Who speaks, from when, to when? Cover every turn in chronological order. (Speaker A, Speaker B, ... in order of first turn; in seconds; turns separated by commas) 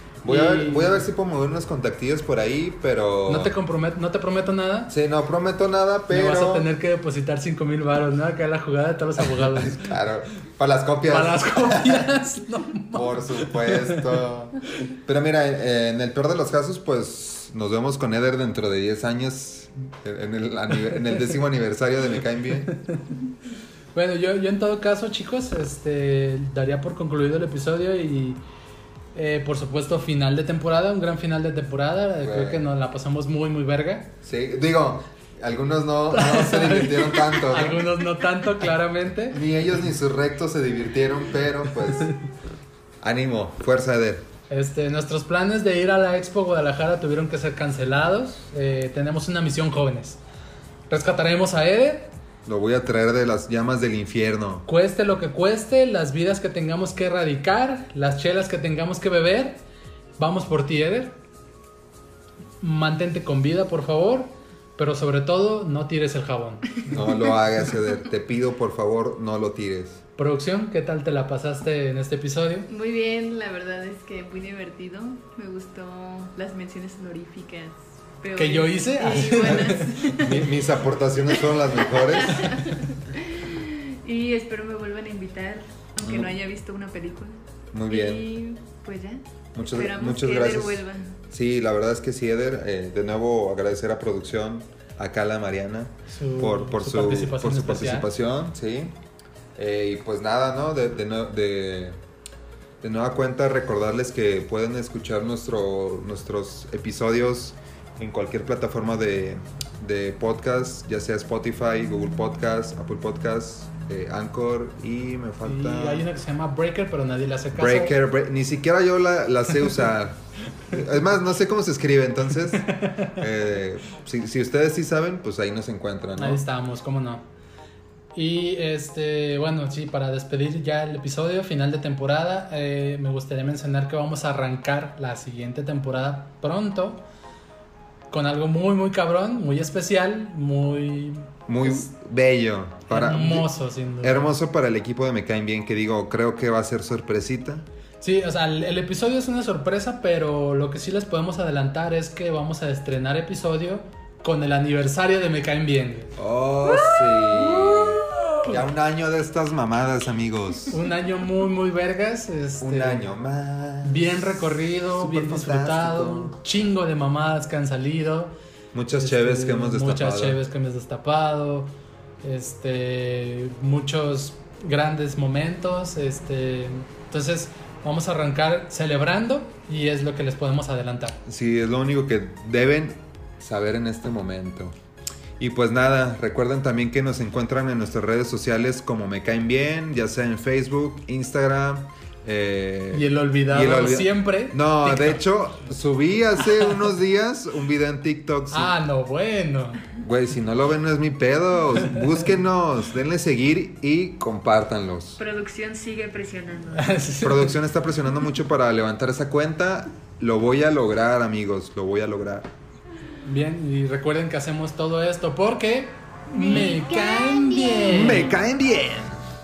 Speaker A: 0.2-3.5, Speaker B: 0.2-1.1, Speaker B: 3.3-4.9, Speaker A: 4.9-6.7, Speaker B: 6.1-10.0, Speaker A: 9.2-12.1, Speaker B: 11.1-14.2, Speaker A: 12.9-22.7, Speaker B: 23.9-28.4, Speaker B: 29.1-34.1, Speaker A: 32.2-32.7, Speaker A: 34.2-37.9, Speaker B: 36.1-39.4, Speaker A: 39.3-42.1, Speaker A: 43.0-44.3, Speaker B: 44.5-50.2, Speaker B: 50.9-52.1, Speaker A: 52.4-54.6, Speaker B: 54.6-59.6, Speaker B: 60.2-61.2, Speaker B: 62.6-67.0, Speaker A: 66.9-70.0, Speaker B: 70.2-72.7, Speaker C: 72.7-80.5, Speaker B: 78.3-80.2, Speaker A: 80.2-82.6, Speaker C: 81.4-89.2, Speaker A: 86.0-86.3, Speaker A: 87.7-88.3, Speaker A: 89.5-99.0, Speaker C: 89.7-91.1, Speaker B: 96.1-98.1, Speaker A: 99.5-102.0, Speaker A: 102.8-116.1, Speaker B: 115.4-117.9, Speaker A: 117.5-120.2, Speaker A: 120.7-126.4, Speaker B: 122.7-123.1, Speaker B: 126.2-127.2, Speaker B: 128.1-137.0, Speaker B: 138.1-141.9, Speaker A: 141.5-147.7, Speaker B: 142.9-144.3, Speaker B: 148.0-156.1, Speaker A: 156.2-160.8, Speaker C: 156.7-158.3, Speaker B: 160.7-163.1, Speaker A: 162.6-166.3, Speaker B: 163.8-168.3, Speaker A: 168.7-170.4, Speaker B: 168.9-171.7, Speaker B: 172.2-181.2, Speaker A: 181.2-184.8, Speaker A: 185.4-198.7, Speaker B: 192.9-195.2, Speaker B: 198.5-199.8, Speaker A: 200.0-205.2, Speaker C: 205.2-207.0, Speaker B: 206.7-207.6, Speaker A: 207.2-212.5, Speaker B: 213.2-218.4, Speaker C: 216.5-217.9, Speaker A: 217.8-219.2